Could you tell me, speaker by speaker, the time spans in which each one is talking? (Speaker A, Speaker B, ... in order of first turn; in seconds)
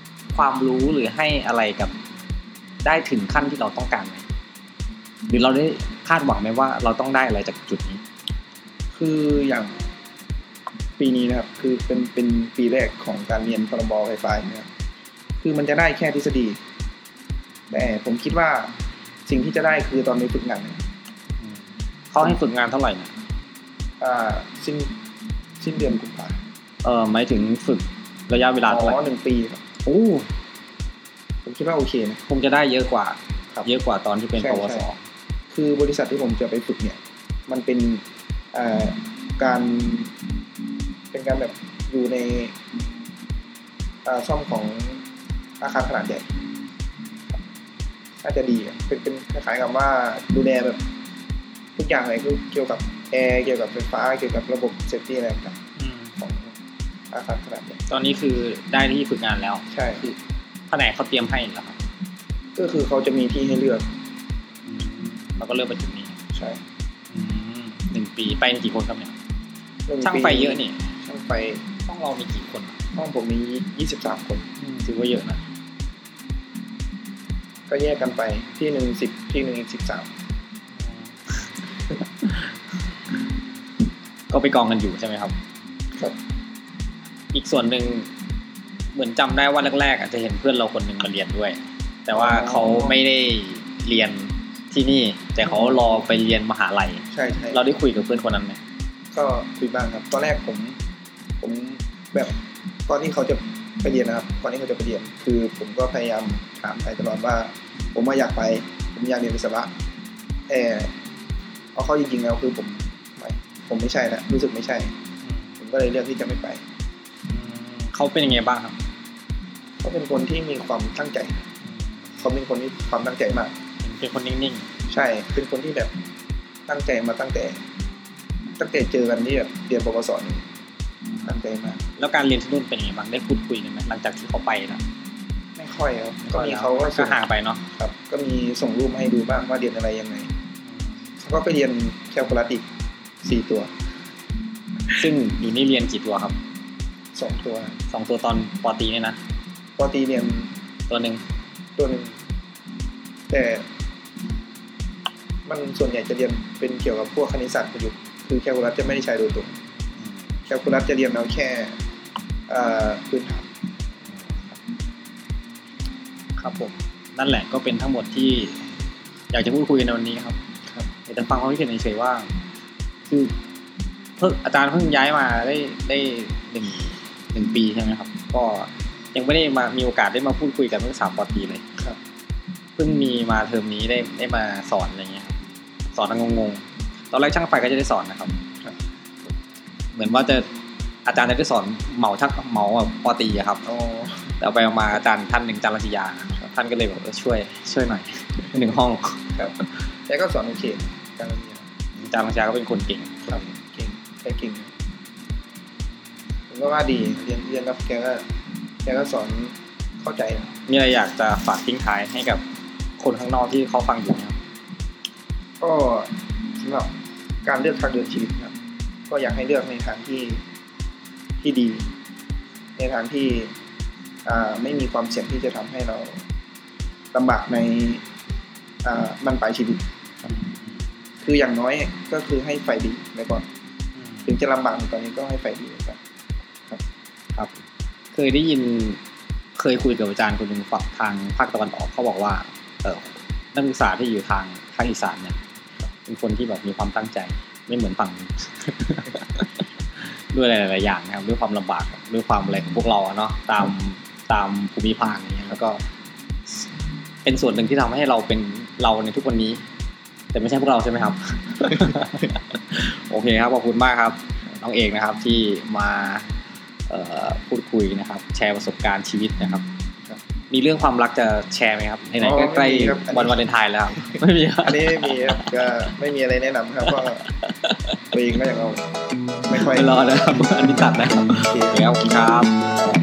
Speaker A: 0.3-1.9, 2.8-4.2, 5.3-8.0, 22.1-23.1, 26.8-29.0, 29.9-30.3, 32.3-35.0, 55.8-56.1, 57.9-60.2, 60.7-61.8, 64.7-66.2, 67.1-69.1, 70.0-70.9, 71.9-72.8, 74.6-75.4, 84.3-85.3, 87.3-88.1, 88.9-98.6, 117.3-118.8, 123.8-124.7, 132.0-134.8, 136.3-137.6, 144.9-146.4, 147.9-149.2, 150.9-151.2, 166.4-168.6, 169.3-170.4, 171.1-172.3, 173.1-173.3, 174.2-181.6, 182.8-185.4, 185.9-188.4, 189.9-190.5, 191.1-193.7, 194.4-199.2, 202.0-203.5, 210.7-212.4, 213.0-214.4, 230.3-230.7, 234.0-234.2, 238.1-239.0, 239.6-245.4, 246.1-249.5, 250.3-255.8, 257.2-259.6, 260.3-266.3, 266.9-269.7, 270.5-275.8, 276.9-278.1, 279.5-282.8
Speaker B: 8.9-9.8, 11.0-14.7, 15.4-16.6, 17.7-20.8, 24.0-24.9, 25.6-26.4, 28.7-29.6, 31.4-32.2, 34.4-34.9, 35.5-40.1, 41.1-42.6, 44.0-45.0, 45.6-46.3, 48.2-50.8, 51.8-55.6, 56.2-56.5, 57.1-57.8, 59.7-60.1, 62.6-63.9, 66.3-66.6, 69.9-71.7, 73.0-74.5, 77.7-80.1, 92.1-93.0, 95.5-95.9, 97.1-97.6, 99.1-100.8, 101.4-109.8, 110.5-110.9, 111.8-115.0, 115.6-116.6, 119.8-121.5, 122.1-123.5, 124.9-125.9, 126.7-127.6, 128.6-130.4, 131.2-131.8, 135.6-137.2, 137.7-140.3, 141.2-142.6, 143.2-143.7, 147.1-147.8, 149.8-150.5, 151.8-152.2, 153.3-153.7, 155.5-159.6, 160.5-161.8, 162.5-163.5, 193.7-194.3, 200.1-201.7, 203.3-204.7, 206.5-208.3, 208.8-210.5, 215.6-216.9, 217.4-218.6, 219.1-220.4, 221.4-221.9, 222.8-223.5, 224.2-226.2, 227.1-228.0, 228.8-229.8, 231.2-233.5, 234.2-236.0, 272.2-273.4, 274.0-277.2, 278.1-278.9, 279.5-280.1, 281.5-282.3